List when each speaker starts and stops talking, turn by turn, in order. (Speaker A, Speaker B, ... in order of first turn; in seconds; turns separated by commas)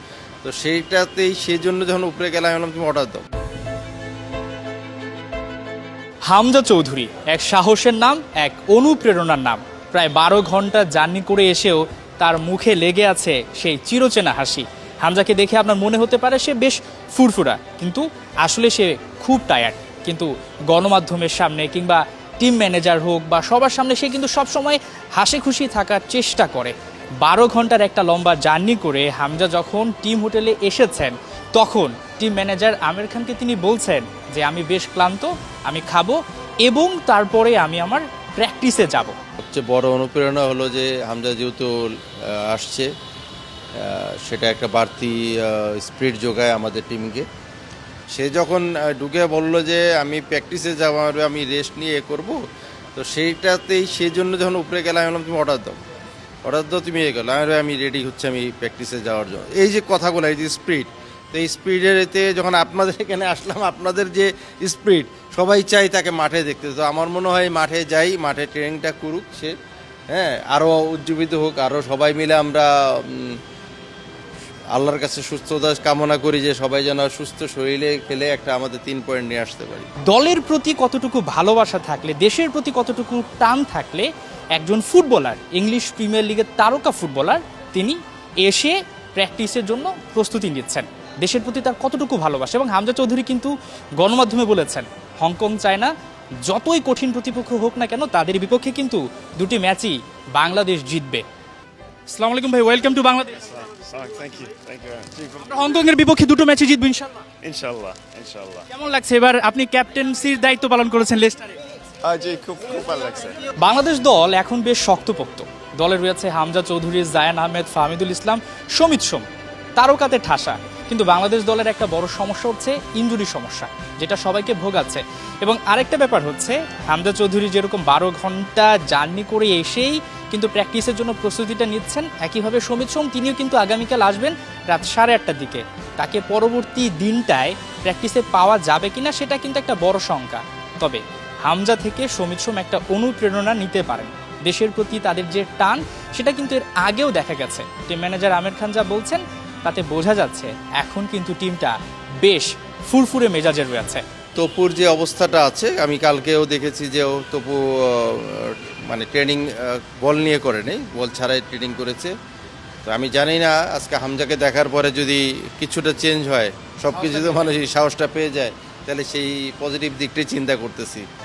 Speaker A: 0.4-3.2, Speaker B: 6.3-39.2, Speaker A: 39.4-42.9, Speaker A: 43.8-47.2, Speaker A: 48.1-52.4, Speaker A: 53.0-55.8, Speaker A: 56.4-69.6, Speaker A: 70.1-73.4, Speaker A: 74.8-79.9, Speaker B: 80.1-95.9, Speaker B: 96.5-101.2, Speaker B: 102.1-103.4, Speaker C: 103.5-105.6, Speaker B: 105.4-107.2, Speaker C: 107.4-108.7, Speaker B: 108.7-111.5, Speaker C: 112.0-113.4, Speaker B: 113.6-119.2, Speaker B: 119.8-154.0, Speaker A: 154.4-162.1, Speaker A: 162.9-171.1